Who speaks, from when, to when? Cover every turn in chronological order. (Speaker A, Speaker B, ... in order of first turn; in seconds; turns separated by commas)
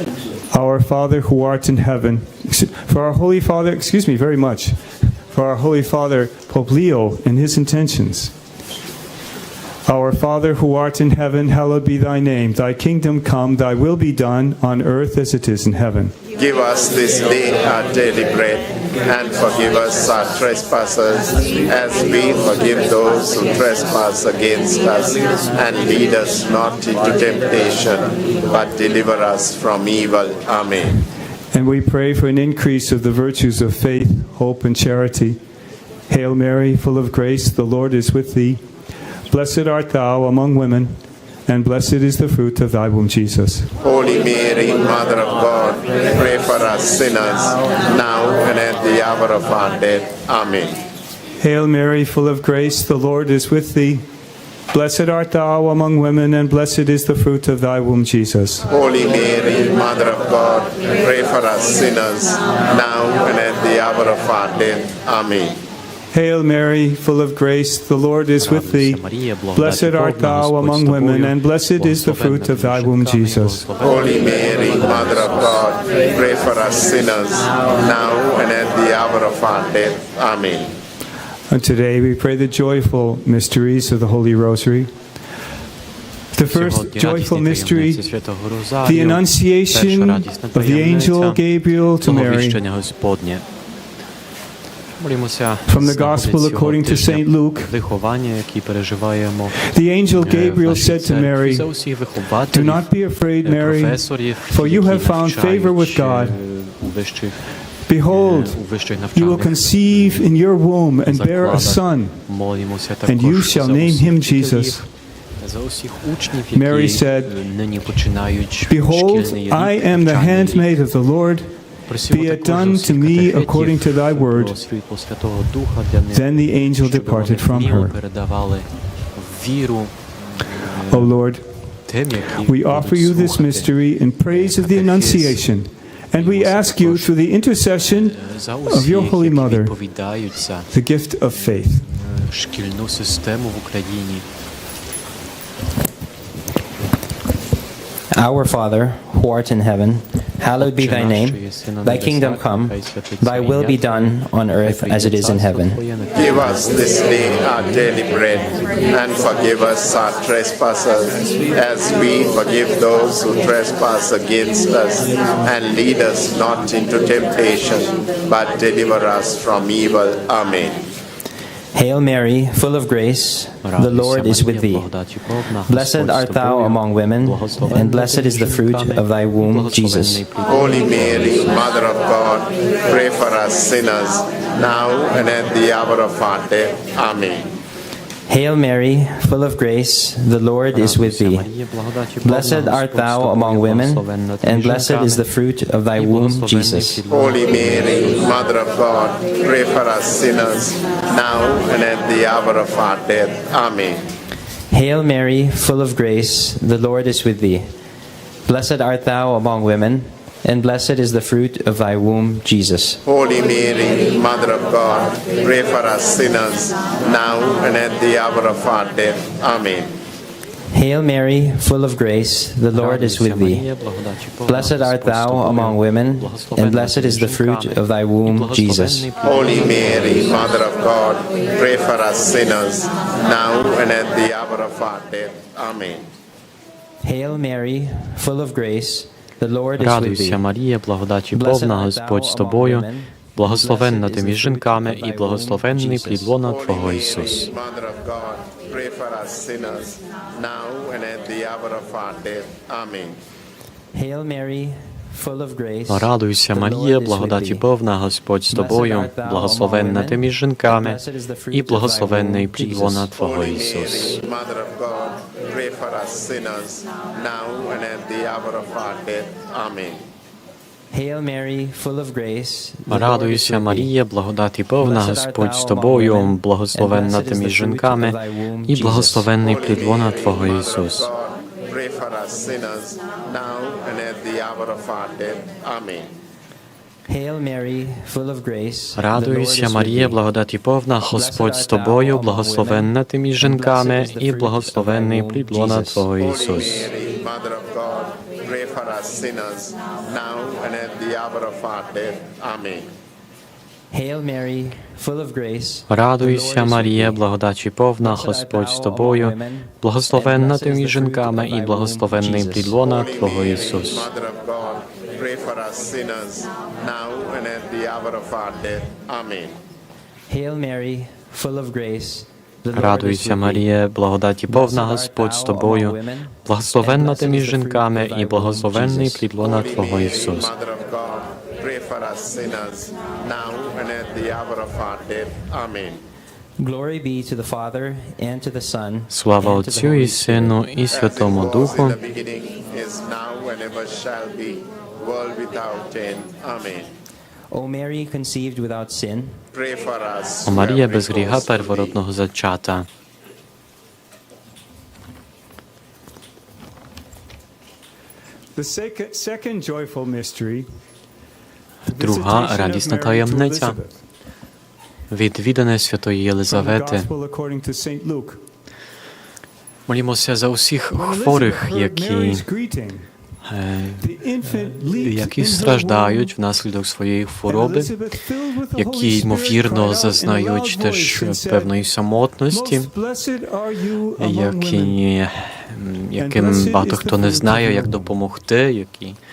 Speaker A: 0.5-8.4, Speaker A: 9.8-16.1, Speaker B: 16.4-31.0, Speaker A: 31.5-35.4, Speaker A: 36.1-43.7, Speaker B: 43.8-50.8, Speaker A: 51.4-54.1, Speaker A: 54.7-58.7, Speaker B: 58.7-65.6, Speaker A: 66.1-73.8, Speaker C: 68.4-75.7, Speaker B: 73.8-80.8, Speaker A: 81.5-85.2, Speaker A: 86.3-88.3, Speaker C: 86.4-93.5, Speaker A: 88.8-92.6, Speaker C: 95.0-99.6, Speaker A: 95.7-97.8, Speaker A: 99.5-106.5, Speaker C: 100.2-110.3, Speaker A: 107.7-114.9, Speaker C: 111.0-120.9, Speaker A: 116.5-117.4, Speaker A: 118.7-124.6, Speaker C: 121.9-135.5, Speaker A: 126.1-128.1, Speaker A: 130.9-141.9, Speaker C: 136.1-137.2, Speaker C: 137.9-144.3, Speaker D: 148.1-155.8, Speaker C: 150.6-158.7, Speaker B: 156.1-170.8, Speaker D: 171.7-174.9, Speaker C: 173.6-181.7, Speaker D: 175.7-180.2, Speaker B: 180.4-187.5, Speaker D: 188.3-191.5, Speaker C: 190.7-195.2, Speaker D: 192.2-197.0, Speaker C: 196.0-198.3, Speaker B: 197.1-204.1, Speaker D: 204.7-207.7, Speaker D: 208.5-213.0, Speaker B: 213.1-219.9, Speaker D: 220.7-223.7, Speaker C: 222.7-230.6, Speaker D: 224.4-229.1, Speaker B: 229.2-236.1, Speaker D: 237.0-240.4, Speaker C: 239.8-247.5, Speaker D: 241.3-246.4, Speaker B: 246.4-253.2, Speaker D: 253.9-257.7, Speaker C: 255.9-261.0, Speaker D: 258.5-263.1, Speaker C: 261.5-264.2, Speaker B: 263.2-270.0, Speaker D: 270.9-273.9, Speaker C: 272.9-278.2, Speaker D: 274.8-279.3, Speaker C: 278.7-281.1, Speaker B: 279.4-286.1, Speaker D: 287.1-290.2, Speaker C: 289.0-296.9, Speaker D: 291.1-296.1, Speaker B: 296.2-302.9, Speaker D: 303.9-307.2, Speaker C: 305.9-314.1, Speaker D: 308.0-312.8, Speaker B: 312.8-319.6, Speaker D: 320.3-323.7, Speaker C: 322.7-330.5, Speaker D: 324.5-329.3, Speaker B: 329.4-336.0, Speaker D: 336.6-340.6, Speaker C: 339.1-342.0, Speaker B: 340.9-346.9, Speaker D: 347.5-349.4, Speaker B: 349.5-352.0, Speaker C: 350.5-352.9, Speaker A: 358.6-360.7, Speaker A: 361.9-364.0, Speaker C: 362.0-363.8, Speaker C: 365.1-367.1, Speaker A: 366.5-368.4, Speaker C: 369.9-372.4, Speaker A: 370.9-373.1, Speaker C: 373.4-378.1, Speaker A: 374.0-376.4, Speaker A: 377.4-381.9, Speaker C: 378.7-382.9, Speaker A: 382.5-385.0, Speaker C: 384.2-389.2, Speaker A: 386.2-388.2